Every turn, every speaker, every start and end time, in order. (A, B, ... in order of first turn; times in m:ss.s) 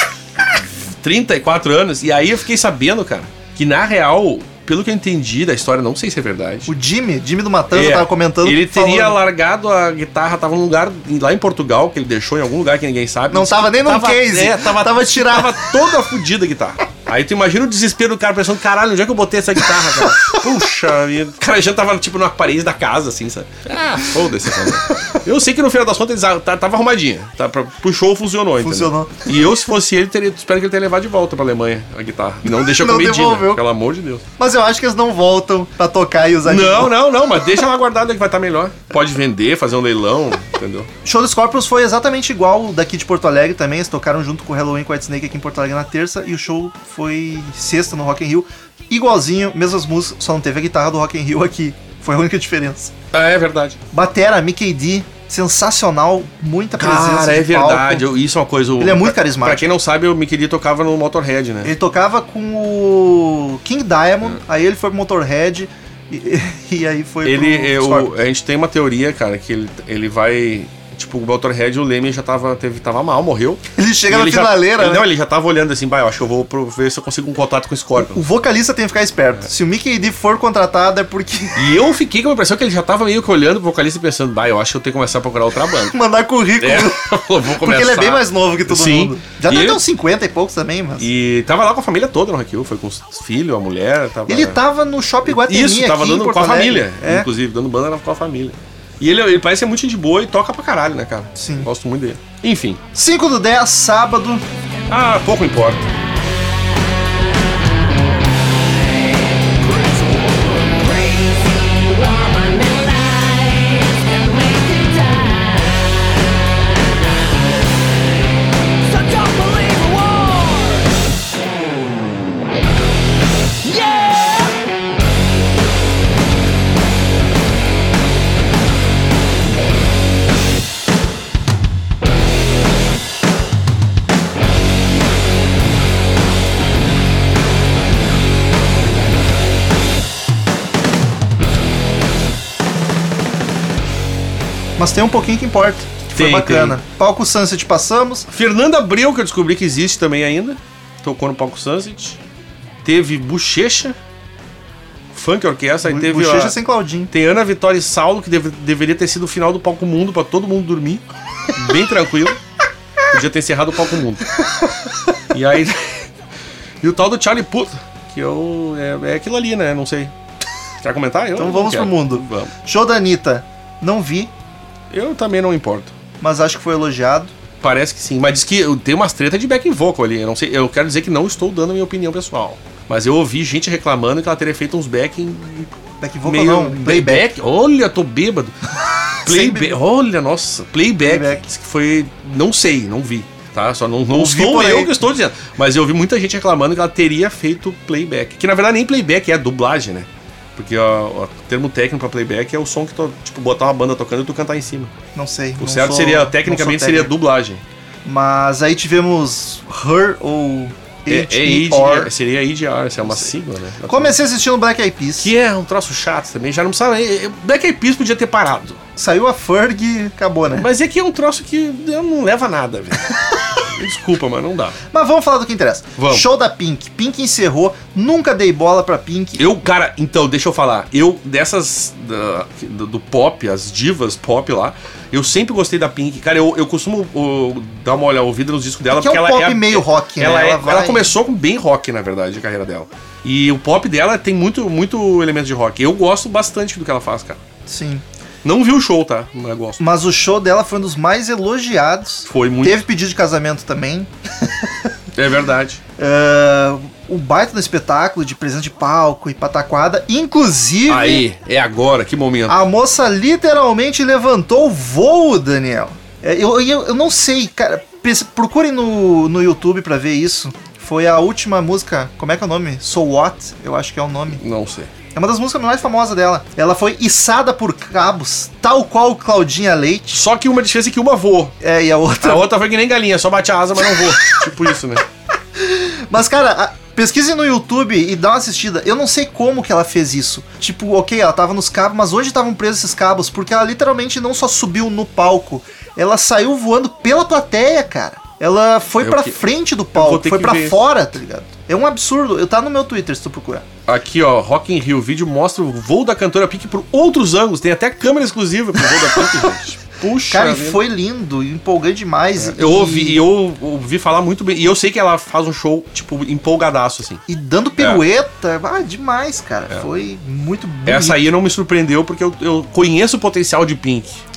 0:00.4-0:06.7 A
0:06.7-0:09.2 B
0:07.7-0:34.2 A
0:13.3-0:15.7 B
0:20.0-0:20.3 B
0:24.6-0:25.0 B
0:28.6-0:29.3 B
0:32.4-0:33.6 B
0:34.4-0:37.0 B
0:36.4-0:40.9 A
0:41.0-0:52.9 B
0:53.1-0:53.8 A
0:53.9-0:58.1 B
0:56.8-1:01.7 A
0:58.8-0:59.6 B
1:01.6-1:08.1 B
1:07.2-1:18.2 A
1:13.7-1:15.1 B
1:18.0-1:21.7 B
1:21.5-1:26.0 A
1:25.9-1:31.1 B
1:26.6-1:29.8 A
1:31.0-1:34.6 A
1:34.3-1:37.3 B
1:35.2-1:42.8 A
1:41.4-1:41.7 B
1:42.9-1:44.4 B
1:44.9-1:45.9 A
1:48.4-1:57.8 C
1:58.8-2:01.0 C
2:03.6-2:04.7 C
2:24.8-2:28.3 B
2:26.1-2:26.8 A
2:28.3-2:32.2 A
2:32.8-2:34.0 A
2:35.1-2:36.6 A
2:35.8-2:37.1 B
2:37.1-2:42.4 A
2:43.1-2:44.3 A
2:45.3-2:46.1 A
2:46.8-2:50.1 A
2:50.8-2:52.5 A
2:51.4-2:54.3 B
2:54.9-2:55.9 A
2:56.2-2:57.3 B
2:57.6-3:08.6 A
3:06.0-3:07.3 B
3:09.2-3:24.9 A
3:09.2-3:09.8 B
3:11.0-3:11.5 B
3:14.1-3:15.0 B
3:25.1-3:27.1 B
3:25.6-3:27.6 A
3:28.0-3:32.1 B
3:31.1-3:34.2 A
3:33.9-3:35.3 B
3:35.2-3:38.8 A
3:39.0-3:40.7 B
3:40.5-3:44.8 A
3:44.9-3:49.4 B
3:46.0-3:46.3 A
3:49.4-4:07.4 A
3:58.9-4:01.1 B
4:07.6-4:08.0 B
4:08.4-4:09.8 A
4:09.8-4:14.9 B
4:12.2-4:12.8 A
4:15.1-4:15.8 A
4:16.0-4:21.2 B
4:20.9-4:22.6 A
4:22.5-4:34.4 B
4:34.4-4:34.9 A
4:35.1-4:40.2 B
4:40.1-4:41.6 A
4:41.6-4:42.5 B
4:42.2-4:45.0 A
4:43.9-4:44.2 B
4:45.6-5:03.6 B
4:59.0-4:59.4 A
4:59.9-5:00.8 A
5:03.9-5:10.8 A
5:08.9-5:09.5 B
5:10.3-5:13.2 B
5:12.4-5:17.2 A
5:17.3-5:21.2 B
5:20.8-5:24.2 A